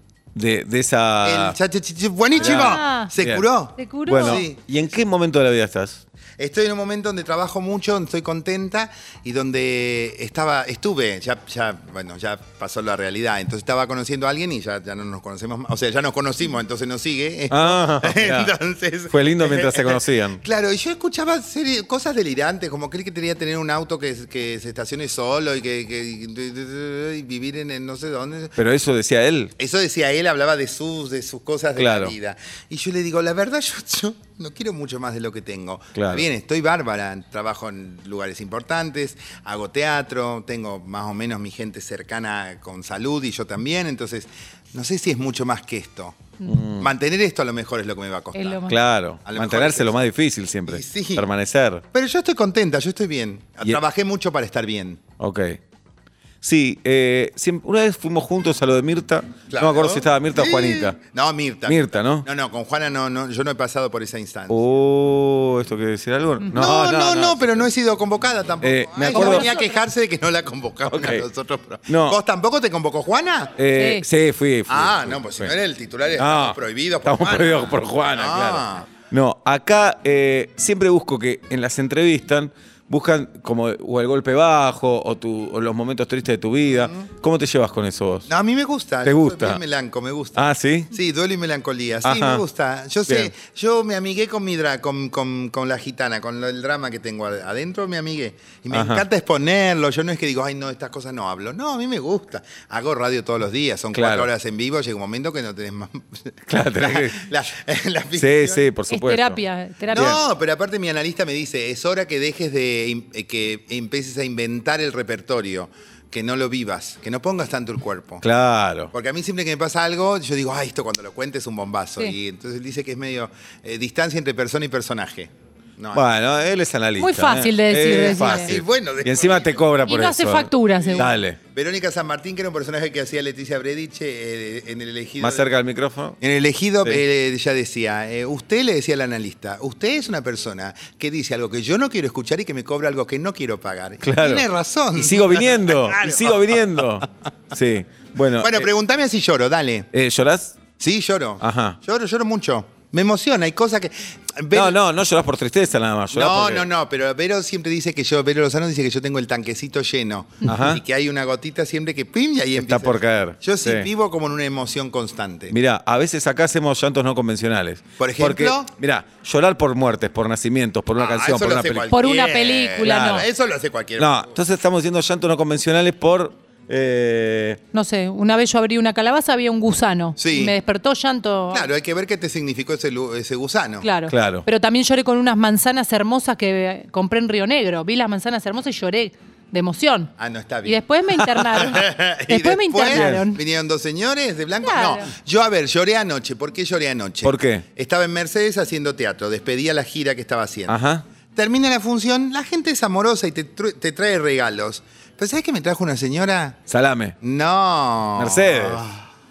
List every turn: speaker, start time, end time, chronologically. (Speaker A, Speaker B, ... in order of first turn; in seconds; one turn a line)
Speaker A: 0.3-1.6
Speaker B: 1.2-4.6
Speaker A: 2.4-3.5
Speaker C: 2.4-3.1
Speaker C: 3.8-4.4
Speaker A: 4.0-6.0
Speaker B: 6.4-28.6
Speaker A: 17.5-18.5
Speaker A: 19.1-20.4
Speaker A: 28.6-29.5
Speaker B: 29.6-46.2
Speaker A: 31.8-32.1
Speaker A: 36.0-36.3
Speaker A: 46.5-46.9
Speaker B: 46.8-48.6
Speaker C: 48.3-48.8
Speaker A: 48.7-51.8
Speaker B: 49.2-50.0
Speaker B: 50.7-51.3
Speaker B: 51.9-55.0
Speaker A: 55.2-55.6
Speaker A: 56.4-61.0
Speaker B: 59.5-64.6
Speaker A: 61.7-62.3
Speaker A: 64.5-67.6
Speaker B: 66.5-73.6
Speaker A: 68.6-69.5
Speaker C: 69.1-69.5
Speaker A: 70.9-71.3
Speaker A: 71.9-72.2
Speaker A: 73.6-75.5
Speaker C: 73.8-74.0
Speaker B: 74.7-78.9
Speaker A: 76.2-88.3
Speaker B: 86.8-87.1
Speaker B: 88.3-108.7
Speaker A: 89.0-89.6
Speaker A: 90.3-90.9
Speaker A: 92.0-92.4
Speaker A: 98.7-99.0
Speaker A: 103.9-104.3
Speaker A: 106.5-107.3
Speaker A: 108.2-109.4
Speaker C: 108.9-110.2
Speaker B: 109.9-118.2
Speaker A: 109.9-110.2
Speaker A: 118.2-118.9
Speaker B: 118.9-126.0
Speaker A: 125.9-131.4
Speaker C: 127.0-128.5
Speaker B: 127.9-129.8
Speaker C: 129.9-131.1
Speaker B: 130.8-135.5
Speaker A: 135.2-136.2
Speaker B: 136.2-146.8
Speaker A: 144.0-148.7
Speaker B: 148.4-149.9
Speaker A: 149.9-150.6
Speaker B: 150.8-154.8
Speaker A: 151.4-151.8
Speaker A: 154.5-156.7
Speaker B: 156.1-165.6
Speaker A: 160.5-160.8
Speaker A: 162.6-163.9
Speaker A: 165.5-171.9
Speaker B: 168.0-168.7
Speaker B: 171.0-174.4
Speaker C: 171.9-173.3
Speaker A: 172.8-173.2
Speaker A: 174.0-177.6
Speaker C: 177.7-181.7
Speaker B: 180.2-180.6
Speaker B: 181.5-183.9
Speaker C: 183.8-190.1
Speaker A: 184.1-184.4
Speaker B: 190.2-190.8
Speaker C: 190.6-193.4
Speaker B: 191.5-200.8
Speaker A: 192.9-193.2
Speaker C: 194.6-195.1
Speaker A: 197.2-197.7
Speaker A: 200.7-201.1
Speaker B: 201.3-206.6
Speaker A: 206.7-207.2
Speaker B: 207.2-209.0
Speaker A: 208.2-208.9